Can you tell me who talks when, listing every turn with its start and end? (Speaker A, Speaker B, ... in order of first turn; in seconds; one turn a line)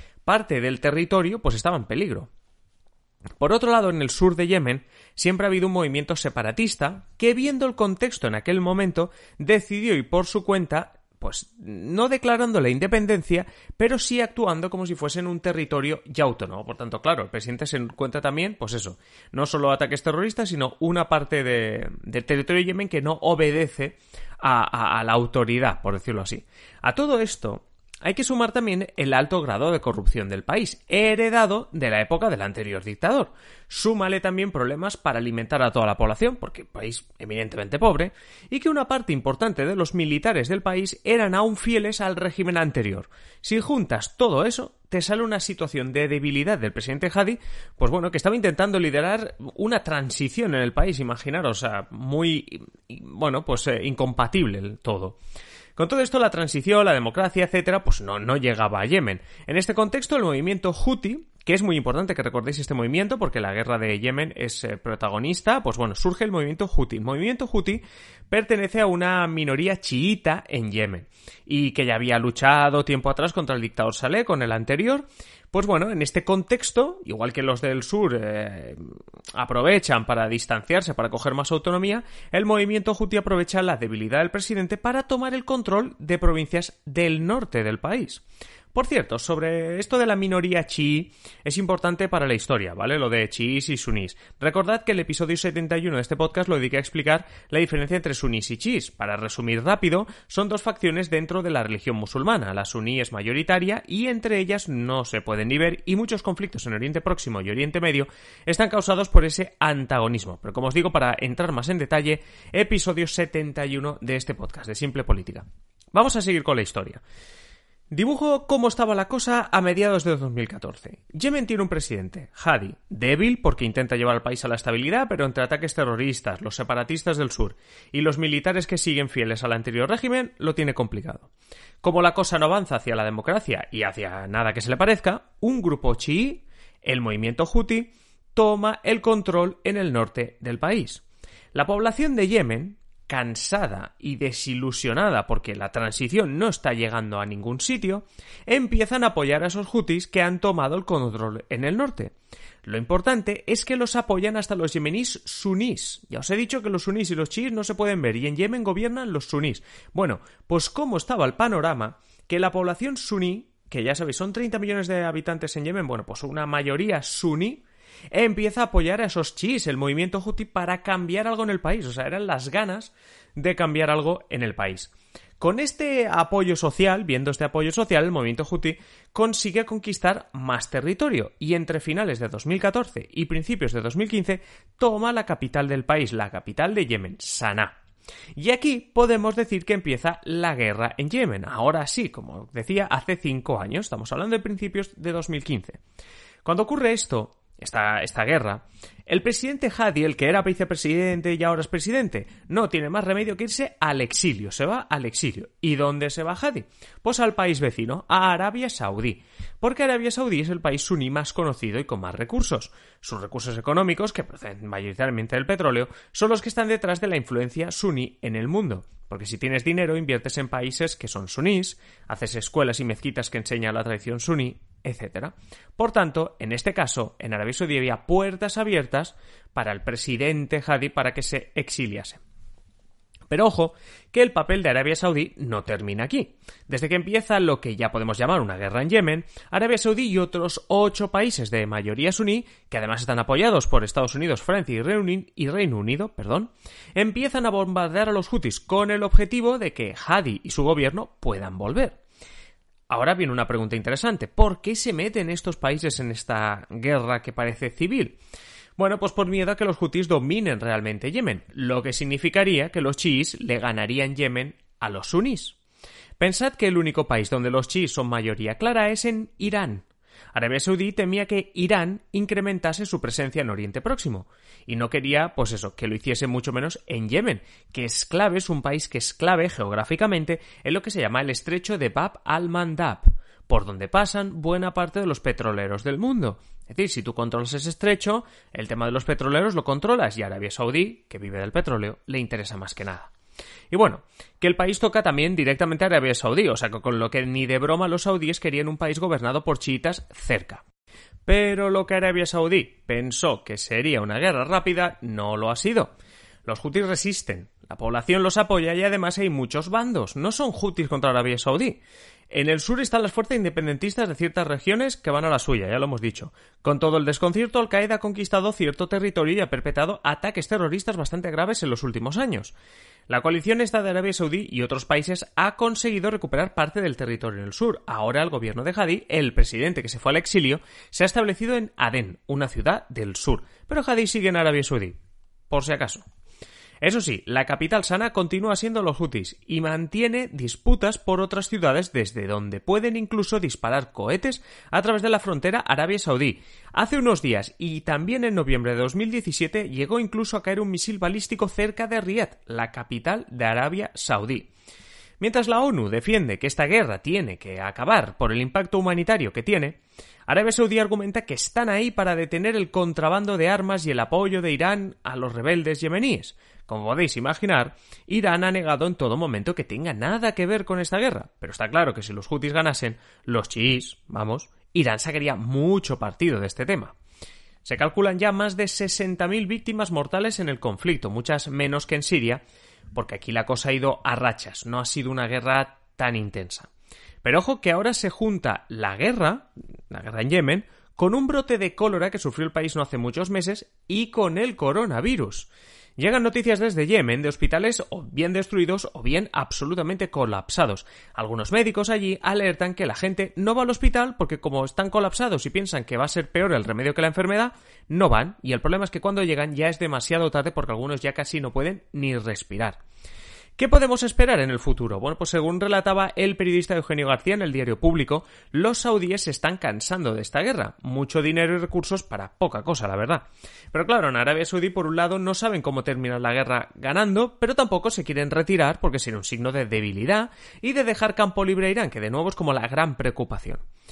Speaker A: 0.2-2.3
Speaker A: 3.4-55.2
Speaker A: 55.8-88.2
Speaker A: 88.7-117.0
Speaker A: 117.9-131.3
Speaker A: 131.8-152.1
Speaker A: 152.6-187.8
Speaker A: 188.3-195.8
Speaker A: 196.4-232.2
Speaker A: 233.3-252.0
Speaker A: 252.9-258.2
Speaker A: 258.8-265.6
Speaker A: 266.2-293.1
Speaker A: 293.7-300.6
Speaker A: 301.2-305.9
Speaker A: 306.4-322.5
Speaker A: 323.1-335.0
Speaker A: 335.5-336.0
Speaker A: 336.8-354.5
Speaker A: 355.2-376.9
Speaker A: 377.6-382.4
Speaker A: 382.9-386.7
Speaker A: 387.2-412.8
Speaker A: 413.6-433.6